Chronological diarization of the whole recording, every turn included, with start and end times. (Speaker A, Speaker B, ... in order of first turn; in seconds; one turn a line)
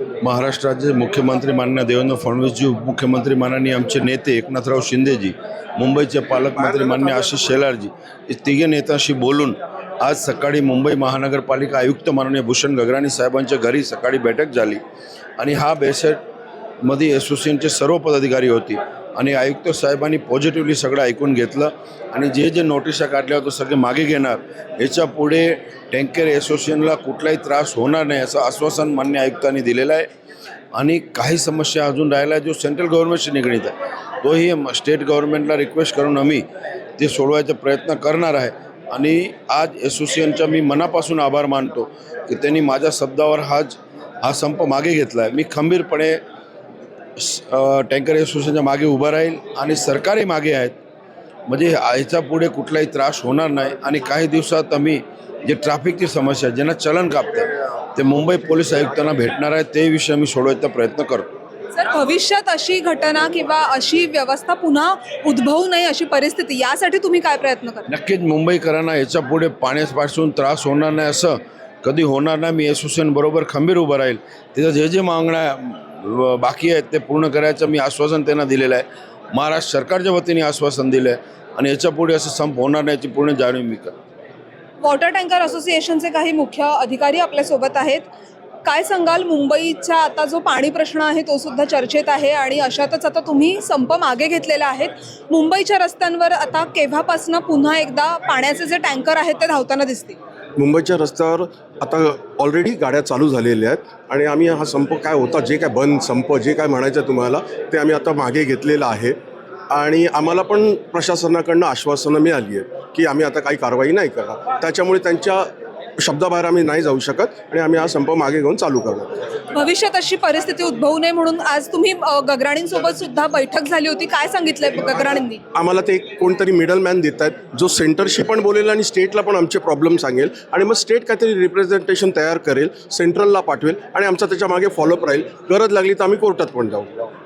Speaker A: 0.2-14.8
Speaker A: 15.4-16.2
Speaker A: 16.8-30.1
Speaker A: 30.7-36.4
Speaker A: 37.0-46.2
Speaker A: 47.2-50.8
Speaker A: 51.5-61.2
Speaker B: 61.7-67.9
Speaker A: 67.9-83.9
Speaker B: 84.8-88.0
Speaker B: 88.6-100.2
Speaker C: 100.6-109.2
Speaker C: 109.7-119.3
Speaker B: 119.5-125.4
Speaker C: 125.5-137.1